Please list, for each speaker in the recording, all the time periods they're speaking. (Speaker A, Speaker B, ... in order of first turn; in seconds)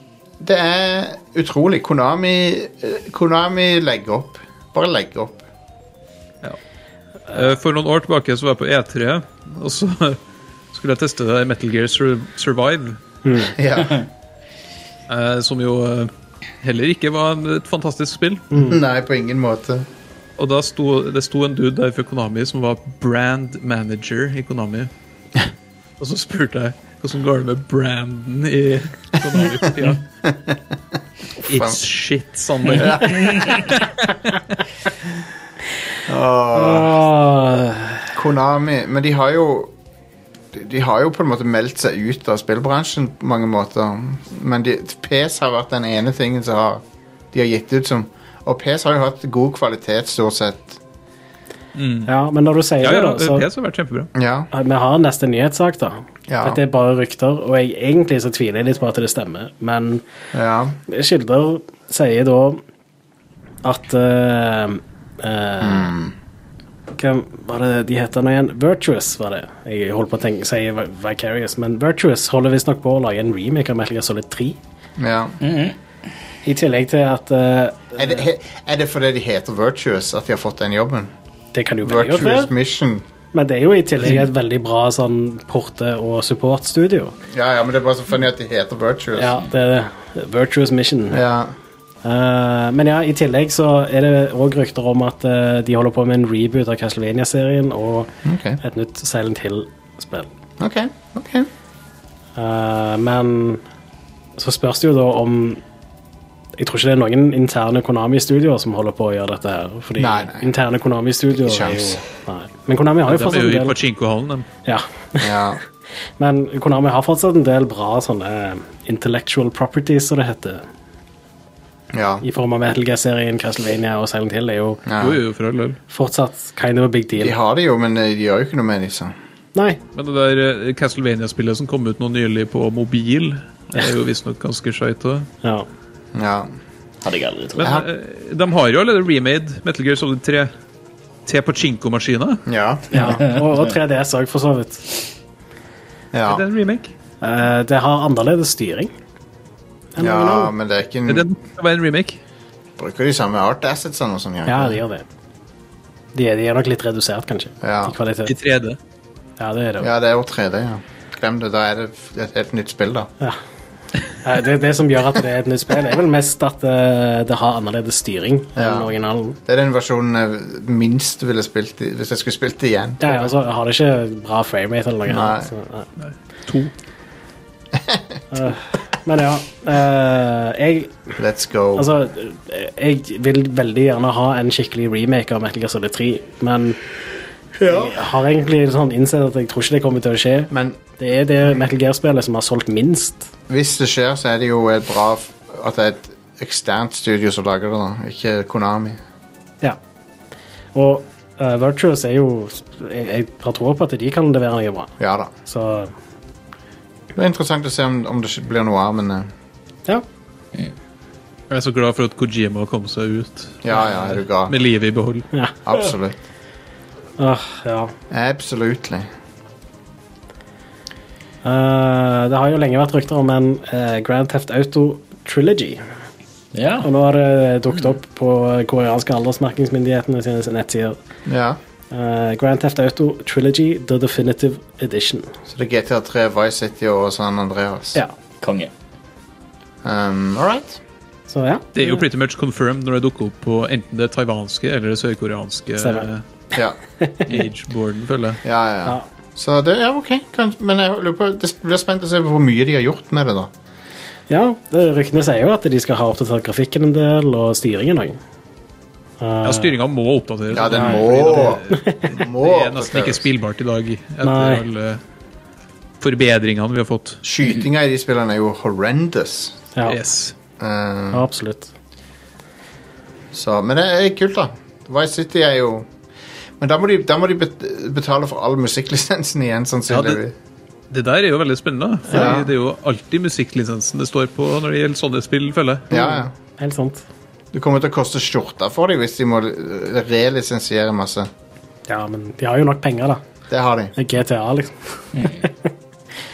Speaker A: 0.4-5.5, 13.6-14.0, 18.5-19.9, 30.2-30.6, 31.4-31.8, 32.7-33.6, 36.1-37.0, 38.1-39.7, 40.5-50.8, 54.1-54.5, 56.3-56.6, 60.3-60.8, 65.6-66.1, 75.0-75.4, 78.0-81.1, 81.8-83.0, 87.3-89.3, 91.1-91.5, 98.2-98.6, 100.6-101.5, 110.0-110.5, 111.4-112.0, 115.2-115.6, 121.9-122.2, 124.8-125.2, 127.2-129.1, 136.1-136.5, 142.4-143.2, 146.1-146.4, 150.0-151.2, 152.8-154.8, 157.6-157.9, 159.8-163.1, 168.6-168.9, 169.5-173.3, 175.1-175.5, 181.2-181.9, 187.6-188.0, 190.5-190.8, 193.5-199.0, 205.0-205.3, 207.1-209.3, 213.6-214.5, 215.7-216.2, 218.1-219.1, 231.2-231.6, 235.5-238.0, 239.8-240.8, 248.4-253.5, 260.5-263.2, 267.2-269.6, 270.6-271.2, 273.3-275.9, 276.6-280.3, 282.1-282.5, 285.9-286.3, 287.5-291.3, 293.5-293.9
Speaker B: 7.3-10.2, 10.7-13.0, 15.1-16.1, 16.6-18.5, 20.4-24.9, 26.0-30.0, 31.4-34.1, 51.7-52.1, 52.8-54.1, 113.0-114.5, 125.0-125.8, 129.9-135.3, 137.6-140.5, 141.2-142.4, 146.3-146.9, 151.1-152.2, 158.2-158.8, 176.0-176.7, 211.5-215.3, 241.7-246.2, 247.3-248.4, 259.4-265.0, 266.0-267.2, 269.8-270.3, 279.9-280.2, 280.9-285.9
Speaker C: 13.2-13.5, 36.5-38.1, 52.1-53.5, 54.5-60.0, 60.9-62.6, 63.6-65.9, 66.9-74.6, 76.4-78.0, 81.5-82.5, 83.3-87.1, 89.1-91.2, 92.0-100.3, 102.3-103.6, 104.4-105.6, 106.6-113.7, 114.7-115.5, 116.2-120.6, 122.2-124.8, 125.9-127.3, 129.5-129.8, 142.9-144.8, 147.2-148.9, 149.9-150.5, 154.5-155.1, 156.1-158.3, 159.4-159.9, 164.2-169.4, 173.0-175.8, 178.3-180.9, 181.8-186.8, 187.7-193.3, 200.7-204.9, 205.4-205.9, 217.2-217.9, 221.4-225.8, 226.8-231.0, 231.9-235.3, 241.3-241.9, 245.8-246.1, 247.0-247.3, 254.3-258.2, 259.2-259.7, 260.6-262.0, 264.2-264.6, 271.1-271.7, 285.9-287.0, 291.9-293.2, 293.9-295.5
Speaker D: 75.4-75.8, 137.0-137.8, 226.5-226.9, 238.4-238.7, 295.1-295.4